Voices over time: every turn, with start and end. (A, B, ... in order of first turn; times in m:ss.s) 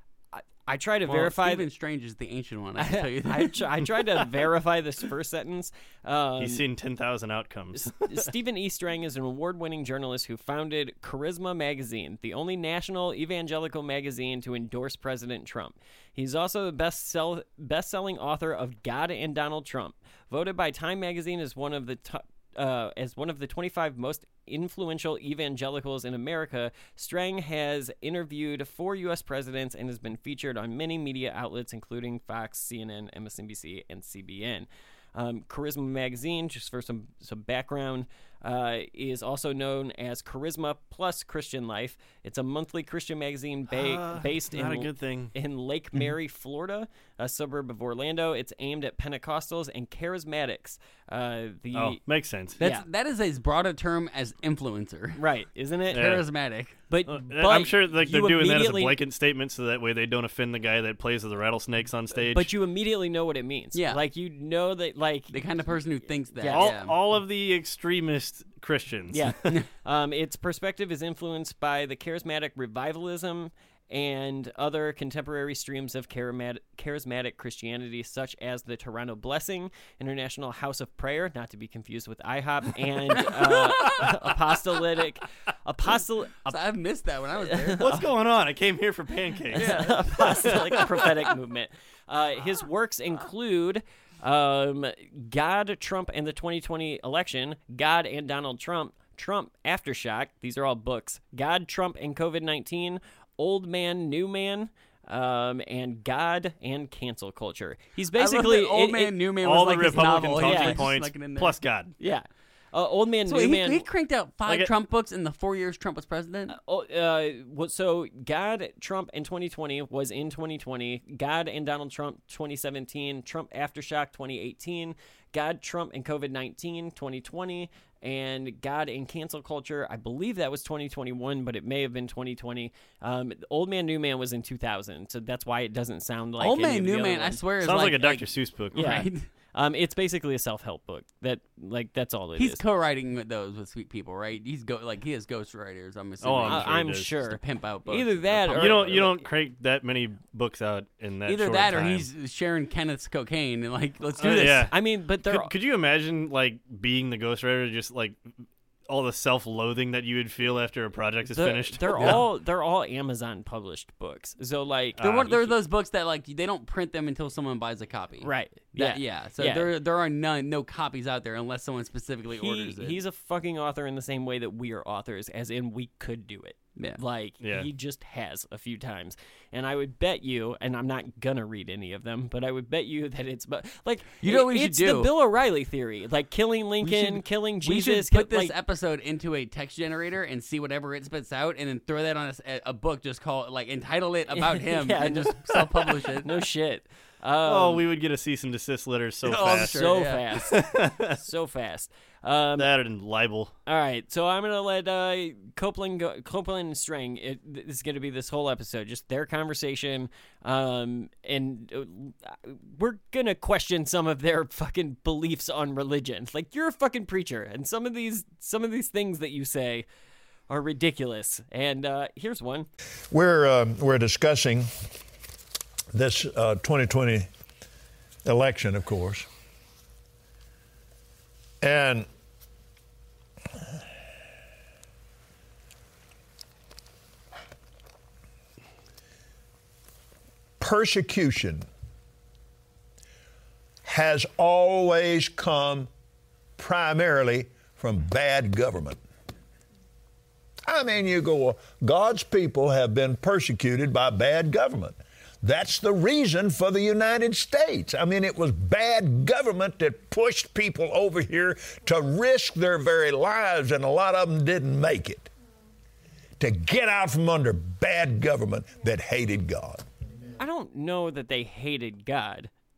0:00.3-0:01.7 A
0:01.1-0:03.6 B
0:02.8-0:06.6 A
0:06.4-0:08.3 C
0:07.8-0:52.0 A
0:43.7-0:45.3 C
0:51.7-0:52.6 C
0:52.6-0:55.2 B
0:52.6-0:52.8 A
0:55.2-0:56.1 A
0:55.9-0:56.8 B
0:55.9-0:56.2 C
0:56.9-0:59.0 A
0:57.1-1:02.5 C
1:02.3-1:05.4 A
1:03.7-1:04.0 B
1:05.3-1:07.0 B
1:06.4-1:06.7 A
1:06.5-1:09.6 C
1:09.1-1:26.6 A
1:23.5-1:24.0 B
1:26.5-1:28.0 B
1:27.4-1:28.0 A
1:27.8-1:30.4 C
1:29.5-1:31.1 B
1:29.5-1:49.2 A
1:48.1-1:51.6 B
1:49.4-1:51.9 C
1:50.0-1:50.9 A
1:52.0-1:53.8 A
1:53.2-1:56.6 B
1:54.4-1:54.7 C
1:56.5-2:17.4 A
2:16.4-2:19.3 B
2:17.6-2:19.0 C
2:18.7-2:22.6 A
2:22.4-2:29.0 B
2:26.2-2:27.1 C
2:26.4-2:29.2 A
2:28.5-2:32.1 C
2:31.2-2:34.7 B
2:34.2-2:42.2 C
2:34.7-2:35.5 A
2:41.3-2:45.0 A
2:45.0-2:45.6 C
2:45.0-2:53.0 B
2:48.2-2:49.7 A
2:52.4-3:08.5 A
2:57.4-2:57.7 C
3:04.2-3:05.1 B
3:06.8-3:16.3 B
3:14.3-3:17.8 A
3:17.4-3:19.8 C
3:19.3-3:20.3 B
3:19.3-3:22.7 A
3:20.3-3:21.2 C
3:22.6-3:23.5 C
3:23.6-3:39.8 A
3:40.5-3:42.7 A
3:43.1-3:44.7 D
3:45.9-3:47.3 D
3:48.2-3:49.3 D
3:51.6-3:52.1 D
4:00.6-4:01.6 D
4:03.8-4:05.9 D
4:06.6-4:09.0 D
4:10.7-4:25.3 D
4:26.4-4:29.8 D
4:30.4-4:32.5 A